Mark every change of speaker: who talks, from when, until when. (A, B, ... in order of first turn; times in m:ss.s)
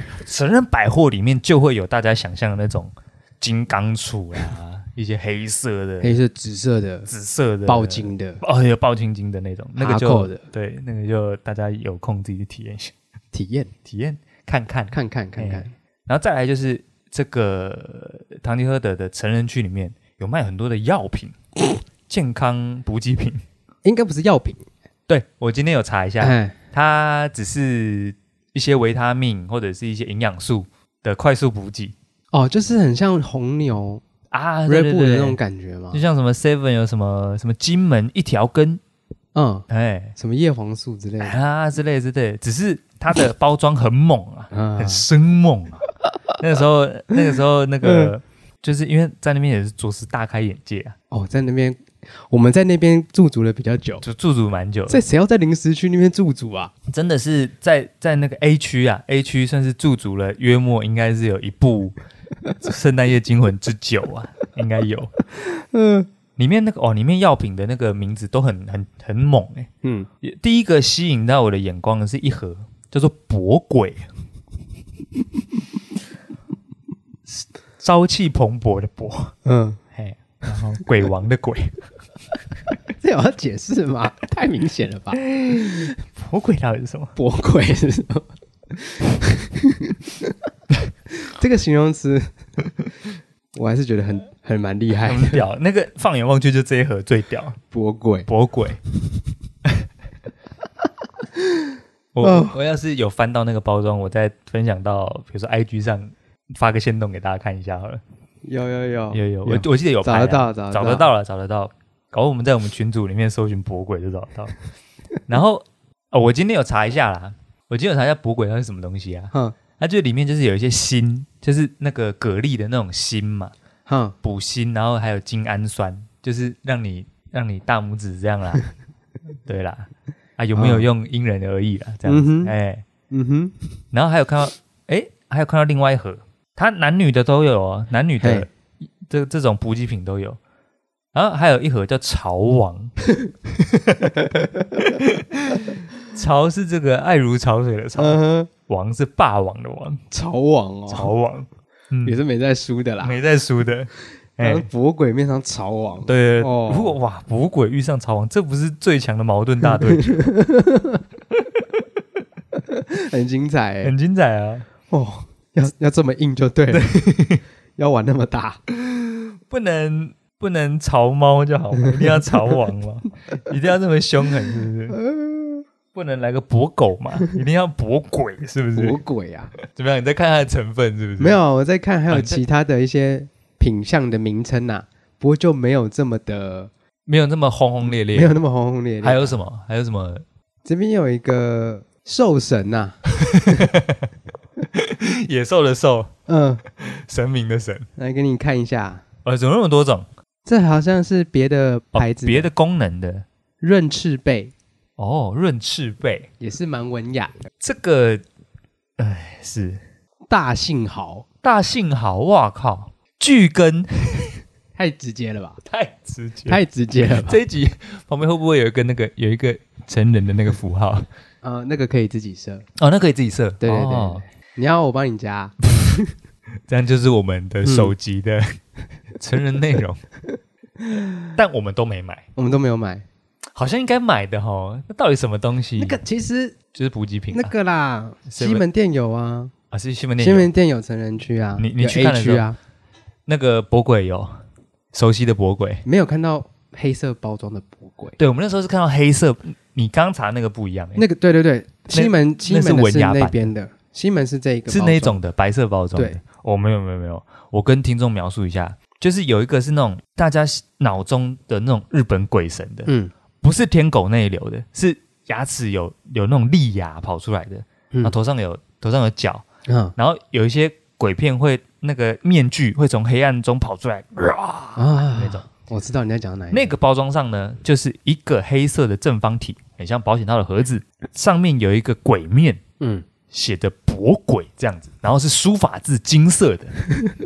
0:00.2-0:06.2 A
0:06.0-0:07.1 B
0:07.1-0:13.0 A
0:07.7-0:08.4 B
0:09.8-0:10.4 B
0:13.3-0:13.7 B
0:13.8-0:21.4 A
0:14.9-0:15.7 B
0:22.1-0:23.4 A
0:23.8-0:24.6 B
0:25.1-0:32.0 A
0:26.2-0:26.6 B
0:32.3-0:34.0 B
0:34.3-0:35.4 A
0:34.7-0:36.0 B
0:35.9-0:38.8 A
0:39.4-0:41.4 B
0:39.7-0:40.2 A
0:41.2-0:51.0 A
0:44.5-0:45.1 B
0:47.8-0:48.1 B
0:51.1-0:54.0 B
0:54.0-0:55.0 A
0:54.9-0:56.7 B
0:56.9-1:02.0 A
1:02.6-1:05.1 A
1:05.4-1:06.1 B
1:06.4-1:09.7 A
1:10.2-1:14.1 A
1:17.3-1:19.3 A
1:19.4-1:19.8 B
1:19.9-1:21.8 A
1:23.0-1:25.8 B
1:25.1-1:27.2 A
1:27.2-1:30.4 B
1:31.2-1:32.3 B
1:33.5-1:35.4 B
1:35.0-1:37.6 A
1:37.7-1:38.3 B
1:38.3-1:38.8 A
1:42.1-1:48.0 A
1:42.2-1:42.6 B
1:48.4-1:51.1 B
1:49.1-1:54.6 A
1:55.3-2:03.5 A
2:03.9-2:04.2 B
2:04.2-2:08.6 A
2:09.5-2:12.8 A
2:10.6-2:10.9 B
2:12.1-2:12.5 B
2:13.1-2:13.6 B
2:13.9-2:18.5 A
2:18.2-2:18.5 B
2:19.1-2:20.4 A
2:21.1-2:22.9 A
2:23.6-2:30.0 A
2:28.0-2:28.5 B
2:30.1-2:31.1 B
2:30.9-2:32.2 A
2:32.0-2:33.2 B
2:33.0-2:34.7 A
2:34.4-2:37.0 B
2:36.1-2:40.3 A
2:39.9-2:41.0 B
2:41.5-2:41.8 A
2:42.6-2:43.9 B
2:43.8-2:44.7 A
2:44.9-2:46.9 B
2:46.7-2:47.4 A
2:47.8-2:48.6 B
2:49.5-2:55.0 A
2:52.0-2:52.3 B
2:54.9-2:55.6 B
2:55.9-2:59.0 A
2:58.8-2:59.5 B
2:59.6-3:01.4 A
3:01.2-3:06.7 B
3:02.1-3:02.4 A
3:07.1-3:08.4 A
3:08.1-3:09.4 B
3:09.0-3:10.2 A
3:10.6-3:13.7 B
3:13.2-3:14.1 A
3:14.7-3:16.1 A
3:16.3-3:16.6 B
3:16.6-3:17.9 A
3:18.0-3:19.0 B
3:19.2-3:20.1 A
3:20.4-3:22.5 B
3:22.0-3:23.3 A
3:23.6-3:24.5 B
3:25.0-3:26.3 A
3:26.4-3:27.4 B
3:27.6-3:28.2 A
3:29.0-3:29.8 A
3:30.3-3:31.2 B
3:31.4-3:34.4 A
3:34.8-3:35.6 B
3:35.7-3:41.1 A
3:36.5-3:37.4 B
3:41.4-3:42.6 B
3:42.8-3:44.2 A
3:43.6-3:45.6 B
3:46.7-3:48.6 A
3:47.6-3:47.9 B
3:49.2-3:50.0 A
3:50.8-3:51.3 B
3:51.4-3:52.3 A
3:52.4-3:53.1 B
3:53.6-3:56.0 A
3:55.8-3:56.6 B
3:56.7-3:57.5 A
3:57.3-3:59.5 B
3:58.3-3:58.6 A
3:59.7-4:00.5 A
4:00.2-4:02.6 B
4:01.6-4:02.5 A
4:03.3-4:04.4 A
4:04.9-4:05.8 A
4:05.8-4:08.2 B
4:08.2-4:11.0 A
4:11.0-4:15.2 B
4:11.9-4:13.5 A
4:14.7-4:35.5 A
4:22.9-4:23.1 B
4:29.7-4:29.9 B
4:34.8-4:36.7 B
4:36.5-4:42.6 A
4:42.8-4:43.1 B
4:43.3-4:46.9 A